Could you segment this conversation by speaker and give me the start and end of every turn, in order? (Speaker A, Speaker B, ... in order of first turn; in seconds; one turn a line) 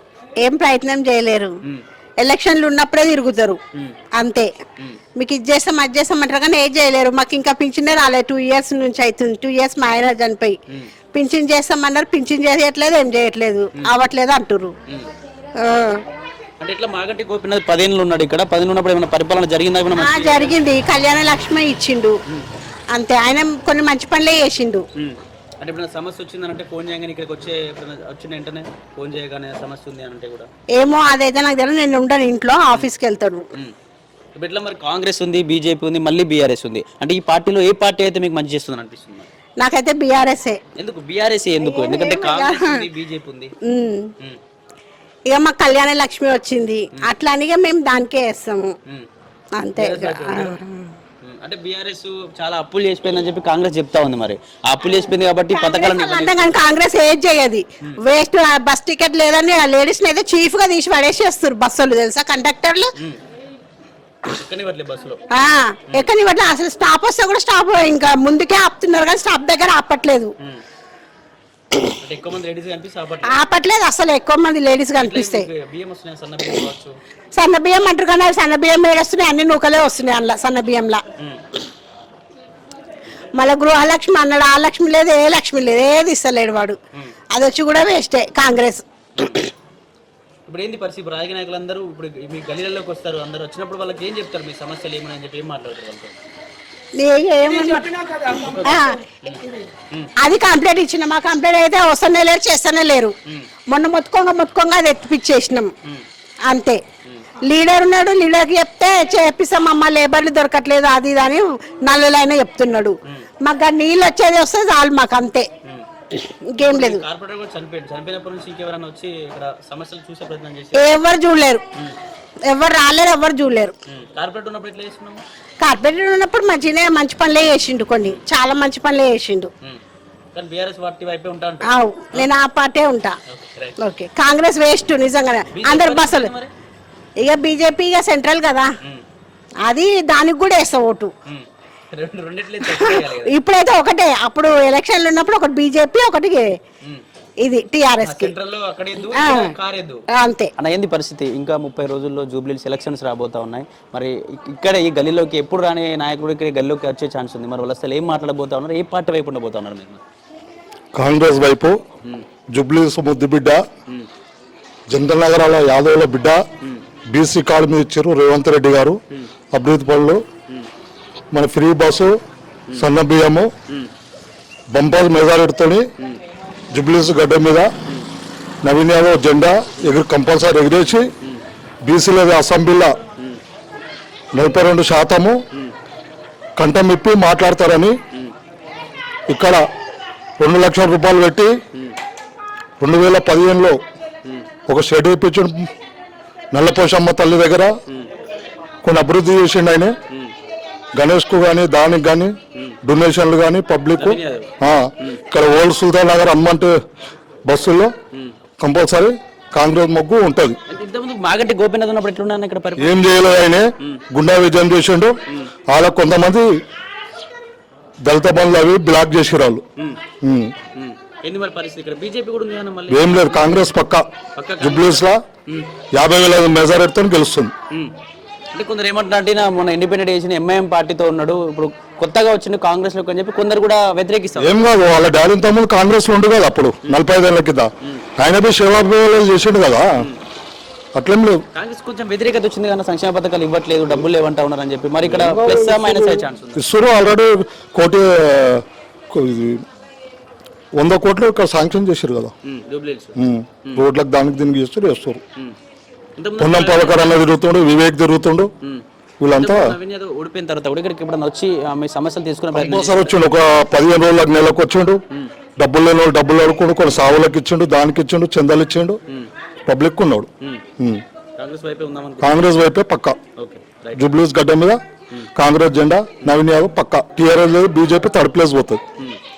Speaker A: 0.4-1.5
Speaker A: 2.2-3.6
Speaker A: 4.2-4.5
Speaker A: 5.2-10.6
Speaker A: 11.1-14.7
Speaker A: 15.6-16.0
Speaker B: 16.6-20.6
Speaker A: 19.9-22.2
Speaker A: 22.9-24.9
Speaker B: 25.0-30.5
Speaker A: 30.8-33.5
Speaker B: 34.4-39.3
Speaker A: 39.6-40.6
Speaker B: 40.8-43.5
Speaker A: 41.6-42.8
Speaker A: 43.6-44.1
Speaker A: 45.3-48.7
Speaker A: 49.6-50.9
Speaker B: 49.8-50.5
Speaker B: 51.2-56.6
Speaker A: 55.5-62.9
Speaker B: 64.3-65.2
Speaker A: 65.3-70.3
Speaker B: 72.0-73.4
Speaker A: 73.3-75.5
Speaker B: 75.0-77.0
Speaker A: 77.4-81.0
Speaker B: 81.2-81.4
Speaker A: 83.4-86.8
Speaker A: 87.3-88.8
Speaker B: 89.2-89.5
Speaker B: 90.5-96.2
Speaker A: 97.0-99.0
Speaker B: 98.5-100.1
Speaker A: 100.2-103.2
Speaker A: 103.7-105.7
Speaker A: 106.5-106.8
Speaker A: 107.5-115.5
Speaker A: 116.1-117.0
Speaker B: 116.6-120.9
Speaker A: 120.8-121.6
Speaker A: 122.5-123.7
Speaker B: 123.9-125.2
Speaker A: 125.6-129.5
Speaker B: 130.3-132.3
Speaker A: 131.7-133.2
Speaker B: 133.3-133.8
Speaker A: 133.8-136.3
Speaker B: 135.5-136.5
Speaker A: 137.2-138.7
Speaker A: 139.7-141.1
Speaker B: 141.3-143.4
Speaker A: 142.7-146.6
Speaker A: 147.4-148.3
Speaker B: 148.0-150.0
Speaker A: 149.1-149.6
Speaker A: 150.1-150.5
Speaker B: 150.6-160.0
Speaker C: 161.0-161.8
Speaker C: 162.6-163.6
Speaker C: 164.9-166.4
Speaker C: 167.1-169.0
Speaker C: 169.5-170.2
Speaker C: 171.3-172.2
Speaker C: 172.8-173.5
Speaker C: 174.7-175.9
Speaker C: 176.7-177.7
Speaker C: 178.6-181.1
Speaker C: 181.8-182.9
Speaker C: 184.3-185.4
Speaker C: 186.6-188.0
Speaker C: 189.3-189.7
Speaker C: 190.4-191.6
Speaker C: 192.8-193.8
Speaker C: 194.7-195.7
Speaker C: 196.5-197.8
Speaker C: 198.8-199.9
Speaker C: 201.0-202.3
Speaker C: 202.8-206.8
Speaker B: 204.0-205.2
Speaker C: 207.4-207.9
Speaker C: 208.6-210.6
Speaker B: 210.7-213.3
Speaker C: 212.8-215.2
Speaker B: 215.3-215.5
Speaker C: 215.7-216.6
Speaker C: 218.1-219.6
Speaker C: 220.2-220.5
Speaker B: 220.7-223.8
Speaker C: 222.9-224.1
Speaker B: 224.3-225.7
Speaker C: 224.6-225.2
Speaker C: 225.9-227.5
Speaker B: 227.7-228.0
Speaker B: 228.5-234.7
Speaker C: 234.4-239.9
Speaker C: 241.0-241.4
Speaker B: 241.5-246.6
Speaker C: 245.0-249.6
Speaker C: 250.8-252.3
Speaker B: 252.4-253.9
Speaker C: 253.2-255.2
Speaker B: 256.2-257.2
Speaker C: 256.4-258.5
Speaker B: 258.6-263.2
Speaker C: 259.2-259.8
Speaker C: 262.5-265.0
Speaker C: 265.6-269.0
Speaker C: 269.7-271.0
Speaker B: 271.4-272.4
Speaker C: 272.2-273.2
Speaker B: 273.4-274.1
Speaker C: 273.9-274.8
Speaker C: 275.4-278.8